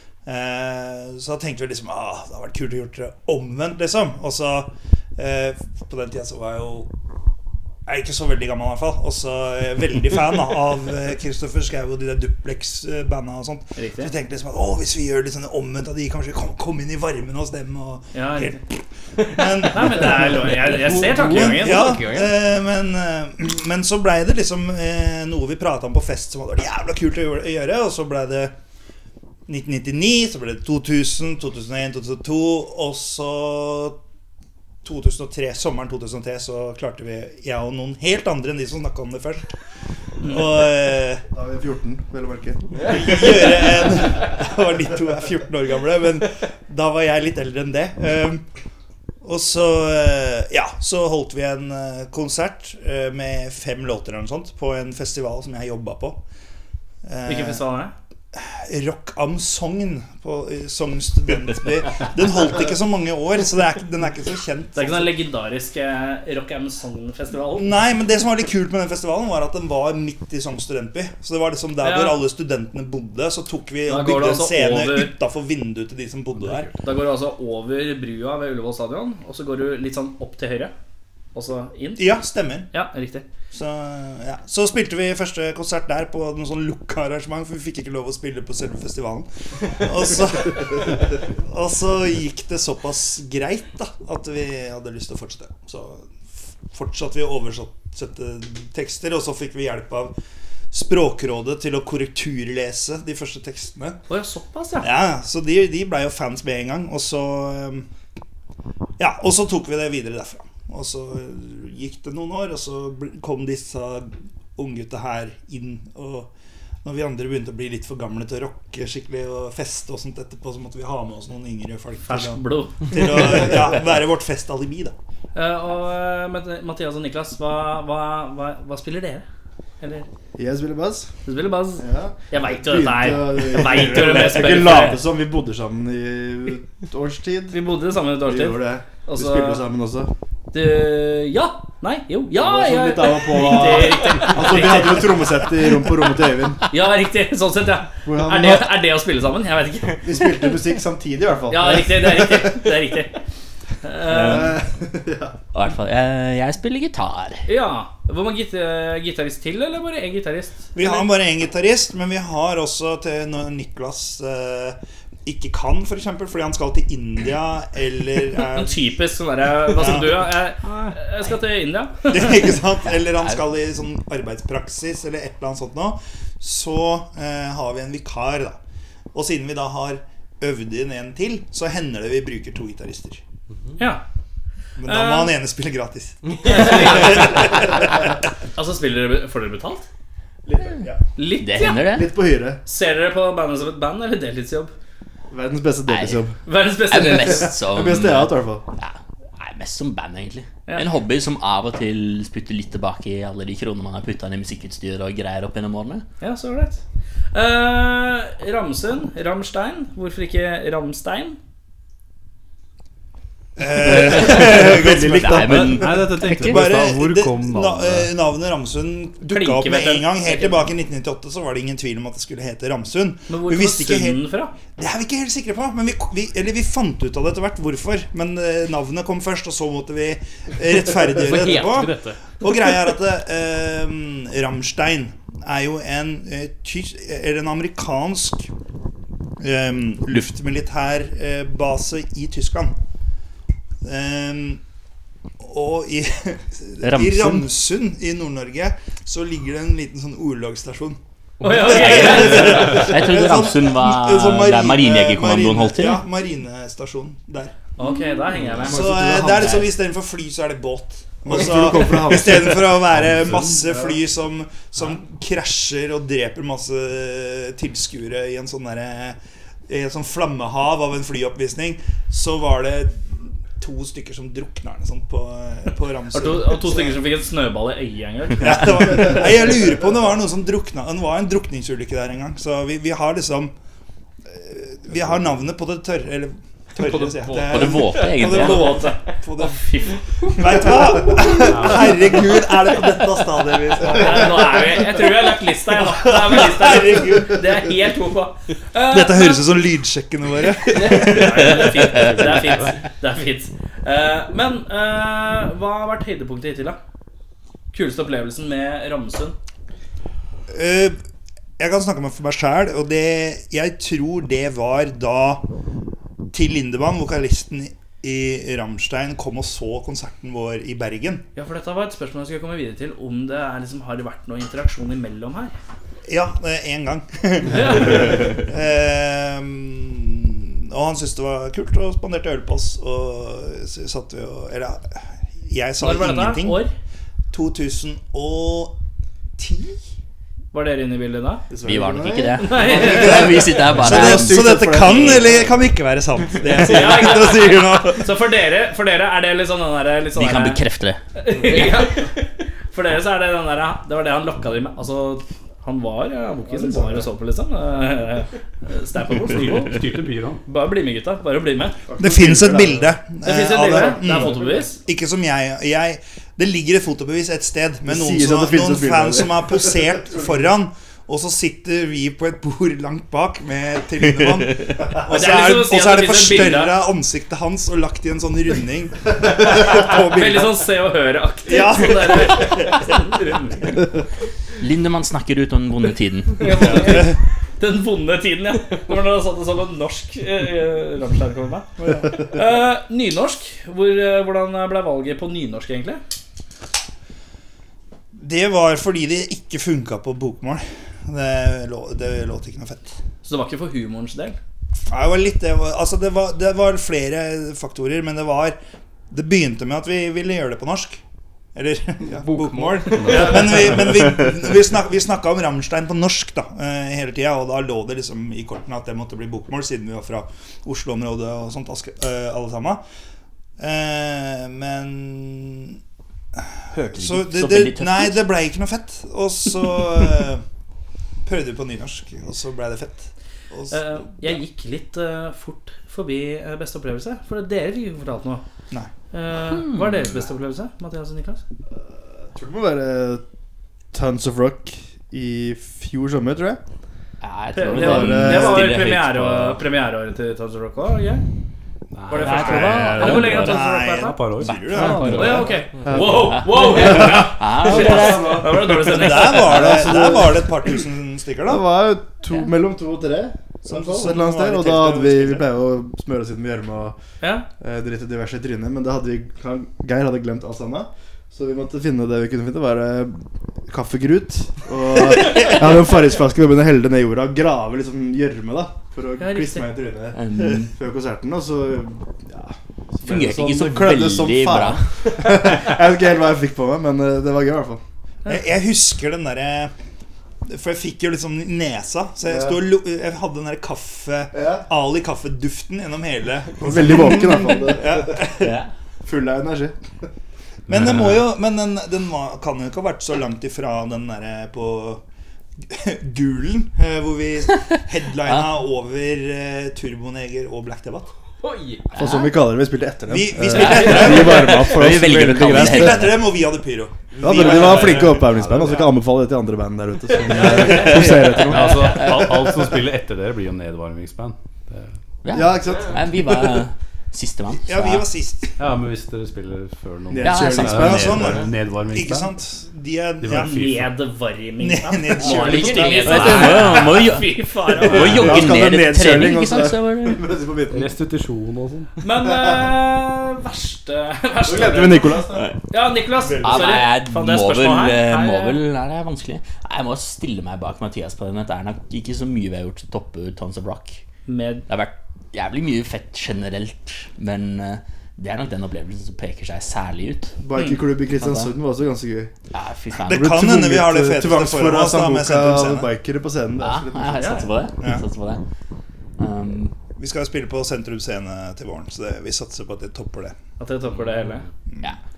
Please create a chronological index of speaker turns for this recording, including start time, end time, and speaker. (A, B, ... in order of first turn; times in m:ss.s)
0:00.2-0:06.9 A
0:07.8-0:28.5 A
0:13.8-0:14.1 B
0:18.1-0:18.6 B
0:19.6-0:22.0 B
0:21.0-0:22.2 C
0:29.5-0:34.0 A
0:34.8-0:39.5 A
0:40.2-0:41.2 A
0:41.3-0:43.7 D
0:42.9-0:48.4 A
0:49.2-0:56.2 A
0:57.0-0:57.6 A
0:57.2-0:57.9 B
0:58.3-1:05.2 A
1:04.7-1:07.7 B
1:07.5-1:16.7 A
1:11.8-1:12.2 B
1:13.9-1:15.1 B
1:16.7-1:20.7 B
1:21.3-1:23.2 B
1:22.0-1:22.7 A
1:23.5-1:40.1 A
1:40.7-1:44.0 A
1:44.1-1:44.9 B
1:44.8-1:47.9 A
1:49.0-1:56.3 A
1:56.8-2:04.9 A
2:02.0-2:03.5 B
2:05.3-2:09.2 B
2:09.8-2:10.1 B
2:10.4-2:11.1 D
2:11.3-2:15.0 B
2:11.8-2:17.6 D
2:17.5-2:19.6 B
2:18.2-2:20.1 D
2:20.5-2:25.5 B
2:22.3-2:26.6 D
2:26.7-2:30.5 B
2:28.0-2:28.8 D
2:30.0-2:32.8 D
2:31.5-2:33.2 B
2:33.8-2:34.6 B
2:34.1-2:34.5 E
2:34.1-2:35.3 D
2:35.5-2:37.4 E
2:37.4-2:41.0 B
2:40.7-2:48.9 A
2:48.5-2:52.4 B
2:49.7-2:50.4 A
2:50.6-2:50.9 F
2:52.1-2:58.6 A
2:52.9-2:53.4 E
2:59.1-3:03.2 A
3:03.8-3:04.0 B
3:04.8-3:08.0 A
3:04.9-3:05.3 B
3:06.4-3:07.6 B
3:08.6-3:09.9 B
3:10.6-3:11.0 A
3:11.2-3:11.9 B
3:11.4-3:12.1 E
3:11.8-3:12.6 D
3:12.6-3:14.7 B
3:15.3-3:16.4 D
3:15.9-3:16.2 E
3:16.4-3:17.5 B
3:16.9-3:26.0 E
3:17.0-3:18.6 D
3:26.2-3:26.8 B
3:27.3-3:31.4 B
3:33.6-3:58.5 A
3:33.8-3:35.8 D
3:33.9-3:36.6 E
3:35.7-3:38.1 F
3:39.3-3:40.7 B
3:43.3-3:44.5 B
3:59.4-4:02.7 A
4:03.8-4:04.6 A
4:05.4-4:11.0 A
4:06.8-4:07.5 E
4:11.4-4:12.8 B
4:11.5-4:17.5 A
4:11.6-4:16.0 E
4:17.8-4:18.8 B
4:18.3-4:18.7 E
4:18.6-4:19.7 D
4:18.6-4:37.0 A
4:21.2-4:24.0 D
4:36.1-4:39.3 B
4:38.4-4:43.5 A
4:44.3-4:49.7 A
4:46.9-4:47.4 C
4:47.4-4:48.8 E
4:48.1-4:50.4 B
4:50.2-4:54.3 A
4:51.5-4:51.9 F
4:53.8-4:59.4 B
4:53.9-4:54.4 D
4:55.8-4:57.4 A
4:58.8-5:01.8 A
5:00.7-5:06.8 B
5:01.4-5:02.6 E
5:02.0-5:02.7 F
5:07.7-5:09.4 B
5:10.5-5:11.0 A
5:11.6-5:15.4 A
5:16.3-5:21.2 A
5:21.4-5:25.5 B
5:26.1-5:36.7 A
5:27.5-5:28.3 B
5:35.8-5:36.7 B
5:37.3-5:38.8 A
5:39.4-5:39.8 A
5:40.5-5:41.4 B
5:41.5-5:45.6 D
5:41.6-5:45.3 E
5:42.4-5:43.2 B
5:42.7-5:48.1 A
5:46.6-5:50.6 B
5:50.1-5:51.0 E
5:51.2-5:52.2 B
5:51.5-5:51.9 C
5:52.7-5:59.8 B
5:56.5-5:57.0 D
5:59.3-6:00.4 F
6:00.4-6:01.8 B
6:01.9-6:02.9 D
6:02.0-6:20.7 A
6:03.2-6:04.8 B
6:03.7-6:04.5 D
6:07.8-6:10.5 D
6:14.2-6:14.7 E
6:15.1-6:16.7 B
6:19.5-6:23.7 B
6:21.4-6:23.2 A
6:24.6-6:26.9 E
6:26.4-6:36.0 B
6:26.7-6:27.2 A
6:38.2-6:43.0 A
6:43.2-6:44.4 B
6:44.8-6:48.6 A
6:49.1-6:51.0 A
6:51.5-7:02.8 A
6:52.1-6:53.4 C
6:53.0-6:53.3 F
7:03.6-7:05.8 A
7:06.7-7:08.3 E
7:06.7-7:10.4 A
7:11.2-7:14.4 A
7:13.7-7:18.4 B
7:19.1-7:21.4 B
7:19.5-7:20.1 E
7:22.3-7:23.2 D
7:23.9-7:26.6 D
7:27.2-7:29.6 E
7:27.5-7:31.2 B
7:27.6-7:28.7 D
7:31.9-7:35.4 F
7:32.1-7:34.2 B
7:32.2-7:35.5 A
7:32.2-7:33.6 E
7:34.4-7:35.3 E
7:34.8-7:40.8 D
7:34.9-7:39.7 B
7:36.1-7:38.6 E
7:38.8-7:41.6 A
7:41.4-7:47.0 D
7:43.6-7:45.5 A
7:47.2-7:47.5 B
7:47.6-8:07.8 D
7:55.1-7:55.6 A
7:59.2-7:59.7 B
8:00.1-8:00.7 E
8:03.0-8:05.2 E
8:08.2-8:09.7 A
8:10.4-8:18.6 A
8:12.2-8:12.6 D
8:14.3-8:14.6 D
8:16.6-8:18.3 D
8:18.4-8:18.7 E
8:19.0-8:19.8 D
8:20.7-8:25.0 A
8:25.7-8:31.1 A
8:27.5-8:28.5 E
8:31.4-8:31.9 C
8:31.9-8:36.2 D
8:32.0-8:32.3 E
8:33.1-8:38.2 A
8:33.5-8:36.3 E
8:37.2-8:42.8 D
8:38.1-8:38.8 F
8:40.4-8:42.4 E
8:41.5-8:44.9 F
8:45.2-8:48.1 E
8:45.3-8:46.6 D
8:47.5-8:48.6 A
8:48.6-8:52.4 F
8:50.1-8:51.5 D
8:50.2-8:51.2 E
8:50.8-8:53.7 A
8:53.2-8:53.9 F
8:53.3-8:58.3 B
8:54.6-8:56.6 A
8:55.3-9:00.3 E
8:57.8-9:00.9 D
9:00.7-9:01.9 F
9:02.0-9:08.6 B
9:02.3-9:02.6 D
9:04.4-9:05.5 D
9:05.3-9:05.6 E
9:06.2-9:06.8 D
9:06.4-9:14.0 E
9:14.3-9:14.6 B
9:14.7-9:20.4 E
9:20.4-9:22.3 D
9:20.5-9:20.8 B
9:21.1-9:21.5 E
9:22.5-9:23.3 E
9:22.9-9:25.9 A
9:23.1-9:27.4 D
9:26.6-9:28.4 E
9:27.1-9:27.5 B
9:27.8-9:28.0 A
9:29.2-9:29.7 E
9:30.0-9:33.4 A
9:33.6-9:34.4 B
9:34.7-9:34.9 A